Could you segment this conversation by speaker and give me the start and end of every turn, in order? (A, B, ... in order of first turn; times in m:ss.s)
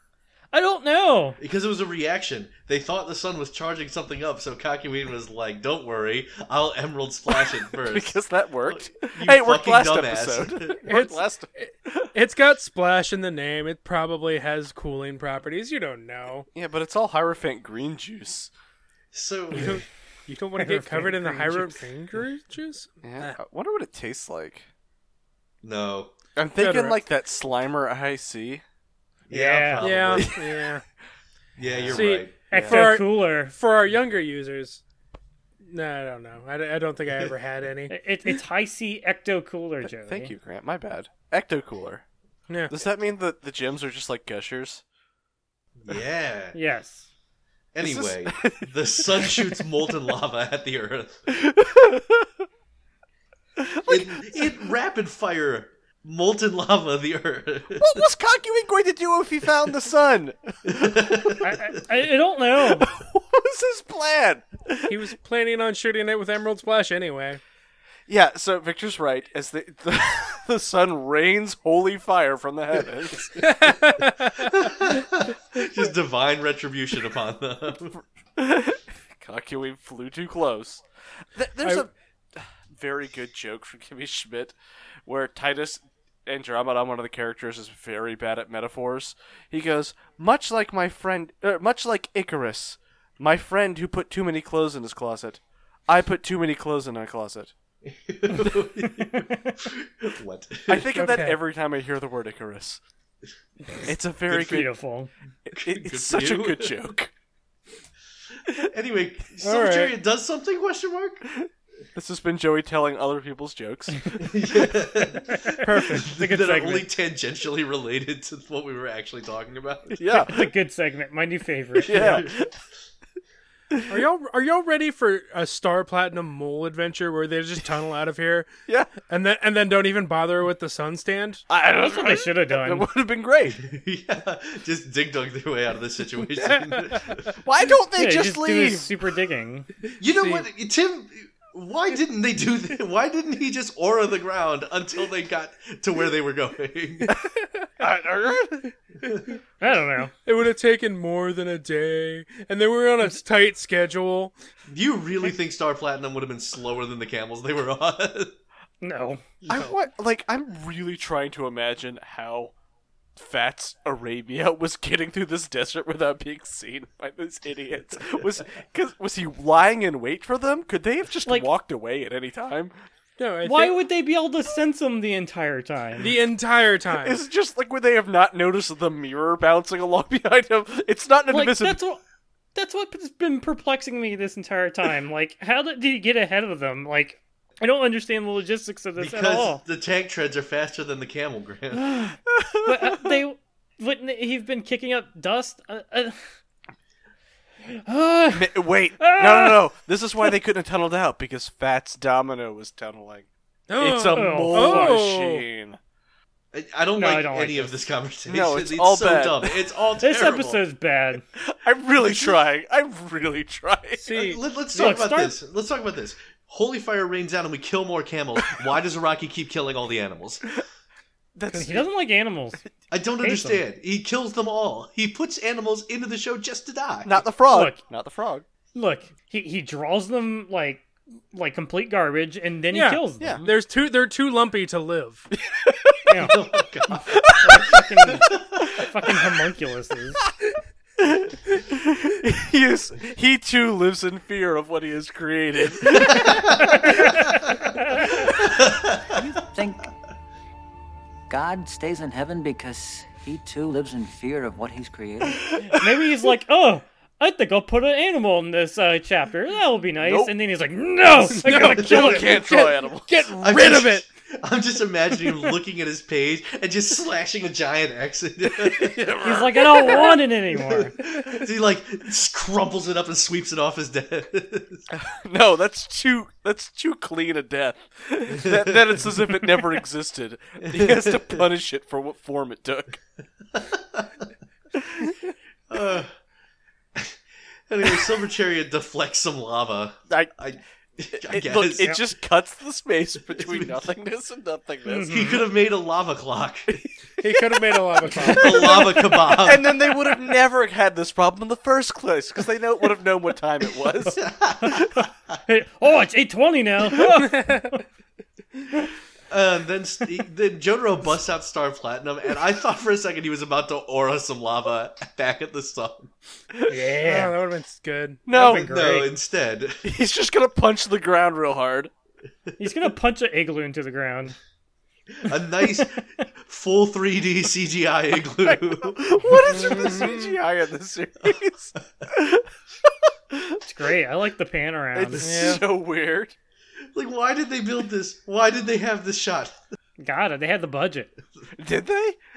0:00.5-0:01.4 A
0:01.4-0:10.8 B
0:07.3-0:12.1 C
0:10.9-0:16.5 D
0:16.5-0:18.5 C
0:19.1-0:19.8 B
0:19.5-0:23.4 D
0:20.6-0:21.7 A
0:23.0-0:24.6 C
0:25.6-0:26.1 B
0:26.4-0:28.6 C
0:26.6-0:27.0 D
0:29.3-0:30.3 B
0:29.3-0:29.9 A
0:29.8-0:30.8 D
0:30.1-0:30.7 C
0:31.6-0:32.4 B
0:31.6-0:32.8 C
0:31.9-0:34.8 D
0:32.5-0:33.6 A
0:35.7-0:37.9 D
0:37.9-0:40.3 A
0:40.1-0:42.0 C
0:42.5-0:42.7 D
0:42.7-0:44.8 C
0:45.8-0:46.6 B
0:46.5-0:47.1 A
0:47.7-0:51.3 B
0:47.8-0:49.6 C
0:51.3-0:52.3 C
0:53.6-0:54.5 C
0:53.9-0:58.1 B
0:57.8-1:01.4 C
1:00.6-1:01.6 B
1:01.4-1:02.9 A
1:02.8-1:05.1 C
1:04.9-1:07.4 D
1:08.1-1:13.4 C
1:13.4-1:14.6 D
1:14.4-1:18.0 B
1:18.4-1:20.8 C
1:21.4-1:24.6 C
1:25.1-1:37.5 C
1:37.8-1:40.9 B
1:38.9-1:39.6 A
1:40.7-1:42.8 C
1:40.9-1:41.4 D
1:43.7-1:44.6 B
1:43.9-1:44.7 C
1:44.3-1:45.1 A
1:45.5-1:47.1 C
1:45.5-1:46.8 B
1:48.5-1:51.2 B
1:49.4-1:49.9 D
1:51.3-1:54.4 C
1:54.2-2:00.3 B
1:55.3-1:56.9 A
1:55.6-1:56.1 D
1:59.9-2:00.4 C
2:00.2-2:02.2 A
2:01.8-2:02.5 B
2:01.9-2:02.5 C
2:03.7-2:04.0 C
2:03.9-2:08.5 D
2:08.7-2:08.9 C
2:09.0-2:11.4 D
2:11.5-2:13.6 C
2:11.8-2:12.9 A
2:13.6-2:17.3 B
2:17.4-2:18.9 C
2:17.9-2:19.7 A
2:20.0-2:27.1 B
2:20.0-2:20.4 D
2:27.1-2:28.7 C
2:29.6-2:30.1 A
2:30.2-2:34.3 D
2:34.7-2:38.3 B
2:38.8-2:39.2 A
2:39.5-2:39.7 D
2:39.5-2:42.5 C
2:43.2-2:52.7 C
2:53.2-2:53.8 D
2:53.4-2:56.1 A
2:56.0-2:57.2 D
2:57.0-3:01.8 C
3:01.3-3:02.0 A
3:02.6-3:09.6 A
3:09.0-3:12.1 B
3:11.8-3:12.1 A
3:12.3-3:13.1 C
3:12.6-3:16.2 A
3:17.8-3:19.6 A
3:18.4-3:23.3 C
3:23.7-3:25.4 D
3:23.8-3:25.8 C
3:24.2-3:25.0 A
3:26.5-3:30.6 B
3:27.0-3:27.7 A
3:28.3-3:29.6 C
3:30.0-3:31.2 A
3:31.4-3:34.2 C
3:34.0-3:34.4 D
3:34.1-3:40.4 B
3:34.7-3:35.4 A
3:41.4-3:41.9 C
3:41.5-3:42.6 A
3:42.9-3:47.2 B
3:43.2-3:43.6 A
3:47.0-3:48.4 C
3:47.5-3:47.8 A
3:48.7-3:53.4 A
3:52.7-3:55.3 D
3:53.2-3:53.5 C
3:55.4-3:56.3 C
3:56.1-3:56.4 A
3:56.2-3:58.7 B
3:57.1-3:57.6 C
3:57.2-4:00.2 A
4:01.0-4:07.2 C
4:06.0-4:07.0 B
4:06.6-4:08.3 A
4:08.4-4:09.2 B
4:09.1-4:09.9 E
4:11.3-4:15.5 E
4:15.6-4:22.4 A
4:20.0-4:20.3 C
4:21.4-4:24.0 D
4:21.4-4:23.1 C
4:23.4-4:29.4 B
4:28.5-4:30.1 C
4:29.2-4:30.9 A
4:30.6-4:34.8 B
4:34.9-4:43.0 C
4:38.3-4:39.1 B
4:40.7-4:41.4 B
4:43.5-4:44.3 B
4:44.8-4:45.2 C
4:45.7-4:46.1 B
4:46.9-4:51.9 B
4:51.3-4:55.4 C
4:53.3-4:53.9 B
4:54.9-4:55.4 A
4:55.1-4:56.8 B
4:57.2-4:58.8 D
4:57.5-5:04.2 C
4:58.1-4:59.9 B
5:04.0-5:05.1 B
5:04.6-5:04.9 A
5:05.5-5:07.8 A
5:07.1-5:07.8 D
5:09.3-5:16.1 B
5:16.5-5:16.9 C
5:16.7-5:17.4 A
5:17.0-5:18.2 D
5:18.3-5:18.6 C
5:18.3-5:19.1 A
5:18.4-5:19.9 B
5:19.8-5:21.9 C
5:22.6-5:24.4 A
5:25.2-5:29.7 B
5:25.6-5:26.2 A
5:28.4-5:32.4 C
5:29.4-5:30.3 D
5:33.3-5:33.6 C
5:33.6-5:35.3 A
5:34.9-5:36.4 C
5:35.2-5:35.6 D
5:36.9-5:39.6 B
5:40.0-5:41.1 A
5:41.6-5:42.2 C